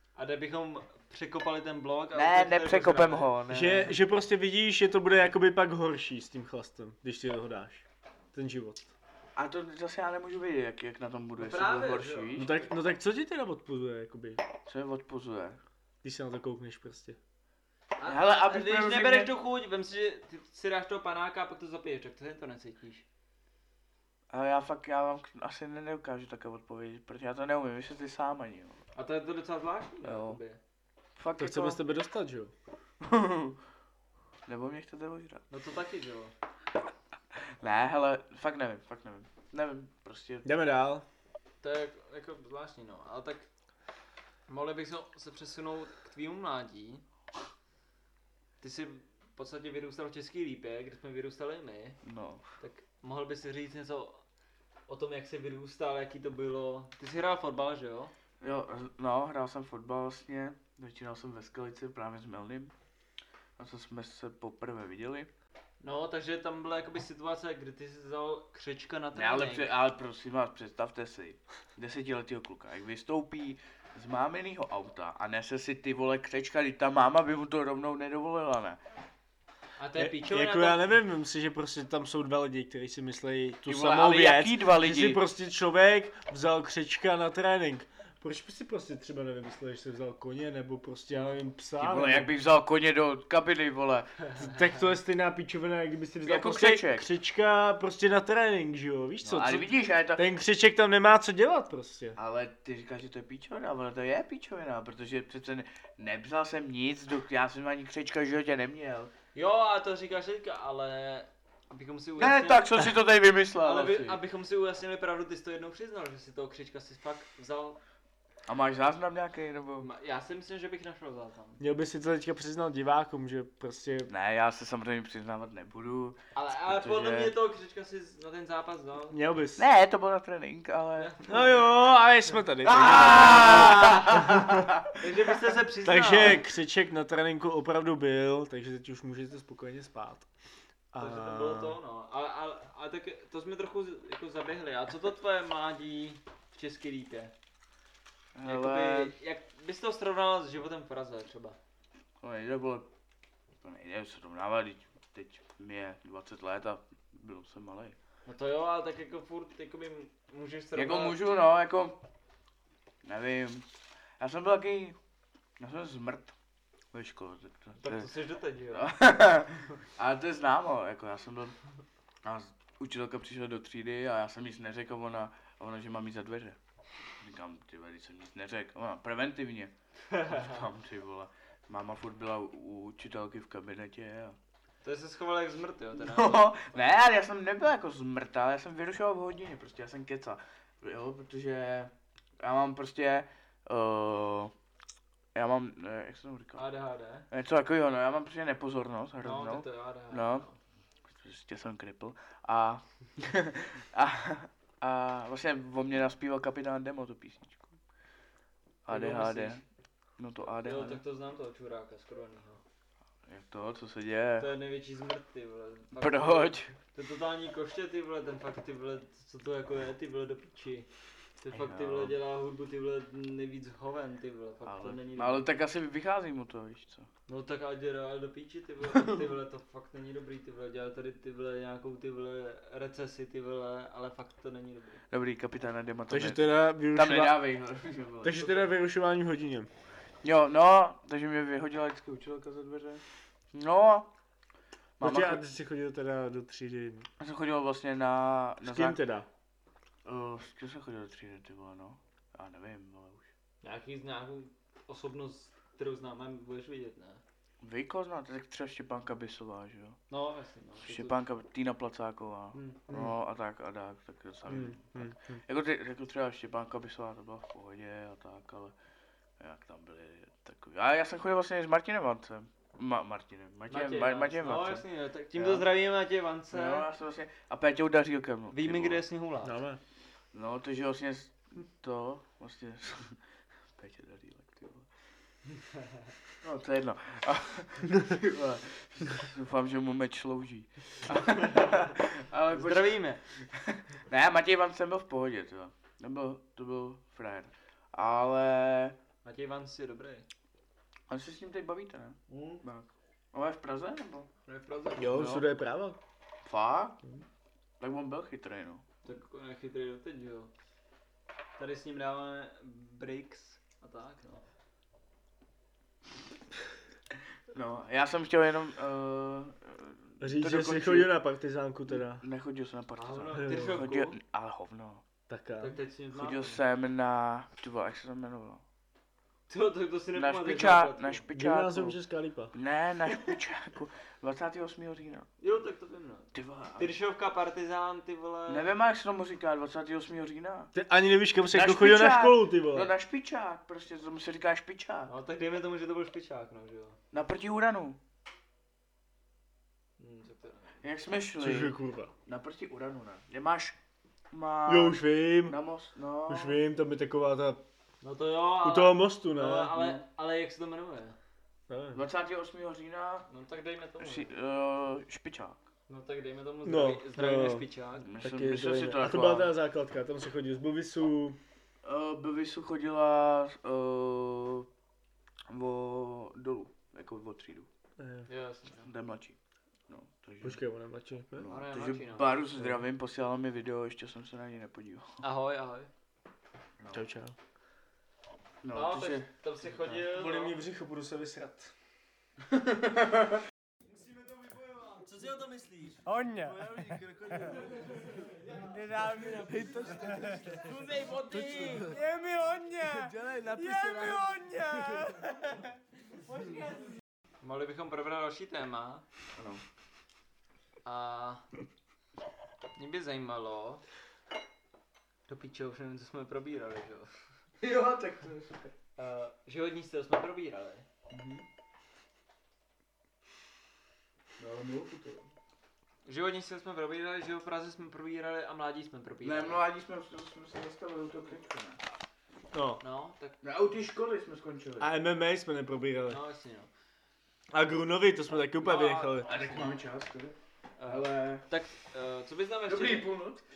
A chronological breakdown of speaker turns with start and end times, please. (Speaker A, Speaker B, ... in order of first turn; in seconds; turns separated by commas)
Speaker A: 0.1-3.3, Speaker B: 2.1-3.9, Speaker C: 3.5-8.9, Speaker B: 9.3-12.5, Speaker A: 11.4-12.7, Speaker C: 12.3-14.4, Speaker B: 14.7-15.6, Speaker C: 16.0-17.2, Speaker A: 18.0-23.0, Speaker B: 18.0-19.3, Speaker B: 24.3-28.8, Speaker A: 28.9-30.6, Speaker B: 30.0-30.4, Speaker B: 31.2-31.8, Speaker C: 31.4-32.5, Speaker B: 33.0-33.6, Speaker B: 34.5-35.4, Speaker A: 35.5-36.3, Speaker B: 37.6-40.5, Speaker C: 40.4-41.0, Speaker A: 41.6-43.5, Speaker A: 44.5-47.0, Speaker A: 48.6-52.0, Speaker B: 52.0-52.4, Speaker A: 52.6-54.2, Speaker A: 54.9-58.1, Speaker B: 58.4-62.7, Speaker B: 63.6-65.3, Speaker A: 65.8-69.7, Speaker B: 69.1-78.8, Speaker A: 79.8-80.8, Speaker C: 80.0-92.3, Speaker B: 83.7-85.2, Speaker B: 91.8-94.3, Speaker C: 94.4-102.2, Speaker B: 96.2-97.1, Speaker B: 99.2-100.2, Speaker B: 102.2-109.1, Speaker A: 109.3-112.8, Speaker B: 112.2-114.2, Speaker A: 113.6-117.8, Speaker B: 118.5-119.9, Speaker A: 119.8-121.6, Speaker C: 121.6-124.1, Speaker B: 124.1-127.3, Speaker A: 126.3-129.2, Speaker C: 129.1-129.7, Speaker B: 129.6-131.1, Speaker A: 131.0-131.6, Speaker C: 131.3-134.7, Speaker B: 132.6-134.9, Speaker A: 132.8-134.0, Speaker A: 134.9-136.4, Speaker C: 135.8-140.3, Speaker C: 140.9-141.8, Speaker A: 141.0-147.3, Speaker B: 148.3-149.1, Speaker A: 148.4-151.6, Speaker B: 152.2-152.9, Speaker B: 153.6-157.9, Speaker A: 158.2-161.2, Speaker B: 160.8-162.0, Speaker B: 163.0-163.7, Speaker B: 164.2-164.9, Speaker B: 165.6-166.3, Speaker B: 166.9-168.1, Speaker A: 167.8-168.9, Speaker B: 168.7-171.6, Speaker B: 172.2-176.6, Speaker B: 177.2-184.3, Speaker A: 180.1-180.6, Speaker A: 184.8-186.8, Speaker B: 186.0-194.5, Speaker B: 195.3-196.7, Speaker A: 196.6-197.2, Speaker B: 197.3-200.4, Speaker A: 199.2-200.6, Speaker B: 201.2-207.8, Speaker B: 208.8-209.6, Speaker A: 208.9-209.6, Speaker B: 210.2-211.0, Speaker A: 210.6-212.6, Speaker B: 213.3-214.5, Speaker A: 214.4-220.9, Speaker B: 215.9-216.7, Speaker A: 221.4-225.4, Speaker B: 221.5-222.1, Speaker B: 224.7-227.1, Speaker A: 227.3-235.0, Speaker B: 235.1-238.6, Speaker C: 236.1-237.4, Speaker C: 238.2-239.7, Speaker B: 240.2-244.1, Speaker B: 245.0-245.4, Speaker C: 245.0-247.1, Speaker B: 247.2-249.0, Speaker C: 248.6-249.3, Speaker B: 250.0-253.2, Speaker A: 253.6-257.2, Speaker B: 257.6-260.0, Speaker A: 260.1-261.2, Speaker B: 260.9-268.7, Speaker A: 262.5-262.9, Speaker C: 264.5-265.4, Speaker B: 269.4-275.7, Speaker A: 273.7-276.9, Speaker B: 276.5-279.0, Speaker A: 278.5-279.6, Speaker C: 279.4-279.8, Speaker B: 280.3-283.2, Speaker B: 283.8-284.9, Speaker B: 286.4-298.9, Speaker A: 291.4-291.9, Speaker A: 292.5-293.2, Speaker A: 299.2-300.2, Speaker B: 301.1-304.3, Speaker A: 302.3-302.6, Speaker A: 304.4-305.2, Speaker C: 305.0-306.0, Speaker B: 305.1-305.4, Speaker B: 306.4-307.0, Speaker B: 307.8-308.8, Speaker A: 309.0-310.5, Speaker A: 311.6-314.4, Speaker B: 317.5-321.1, Speaker C: 320.2-322.2, Speaker B: 321.9-325.0, Speaker A: 323.0-324.1, Speaker C: 323.4-323.8, Speaker C: 325.3-325.8, Speaker A: 325.6-326.6, Speaker B: 326.1-328.6, Speaker A: 329.5-331.2, Speaker B: 330.1-332.0, Speaker C: 331.3-332.5, Speaker B: 332.5-335.3, Speaker A: 335.4-338.7, Speaker B: 336.3-336.9, Speaker B: 338.5-340.7, Speaker C: 340.7-342.9, Speaker B: 341.5-345.1, Speaker A: 345.1-347.0, Speaker B: 347.1-348.0, Speaker A: 350.0-350.8, Speaker B: 350.8-351.7, Speaker C: 351.4-352.1, Speaker B: 352.2-353.7, Speaker B: 354.3-356.6, Speaker C: 354.6-355.6, Speaker C: 356.3-357.6, Speaker A: 358.0-361.2, Speaker C: 358.6-359.9, Speaker C: 361.7-362.0, Speaker B: 361.9-363.3, Speaker A: 363.3-364.3, Speaker B: 364.0-365.6, Speaker A: 365.9-368.1, Speaker C: 366.6-367.6, Speaker B: 368.0-369.5, Speaker C: 368.2-371.4, Speaker B: 371.8-374.7, Speaker B: 375.5-377.7, Speaker C: 378.0-378.3, Speaker A: 378.3-378.9, Speaker B: 378.8-379.4, Speaker B: 379.9-380.6, Speaker C: 380.4-381.5, Speaker B: 381.4-385.1, Speaker A: 381.5-382.4, Speaker A: 385.2-385.9, Speaker C: 386.9-387.3, Speaker B: 388.6-389.3, Speaker A: 388.7-390.6, Speaker C: 390.0-391.7, Speaker A: 394.9-397.7, Speaker D: 399.2-400.0, Speaker A: 400.6-402.0, Speaker D: 401.5-402.0, Speaker D: 402.5-404.3, Speaker A: 403.9-404.1, Speaker A: 407.4-409.0, Speaker B: 409.4-409.6, Speaker A: 410.8-411.4, Speaker A: 412.7-413.8, Speaker A: 415.3-417.1, Speaker B: 417.6-418.7, Speaker A: 419.0-420.9, Speaker B: 421.1-421.4, Speaker B: 424.4-425.3, Speaker A: 426.0-429.6, Speaker B: 429.2-431.8, Speaker C: 432.5-432.8, Speaker A: 432.8-433.4, Speaker B: 433.4-434.9, Speaker C: 434.8-436.2, Speaker A: 436.1-436.7, Speaker C: 437.5-439.3, Speaker A: 438.6-439.7, Speaker B: 439.2-440.3, Speaker A: 440.8-443.1, Speaker B: 440.9-441.4, Speaker B: 442.7-443.4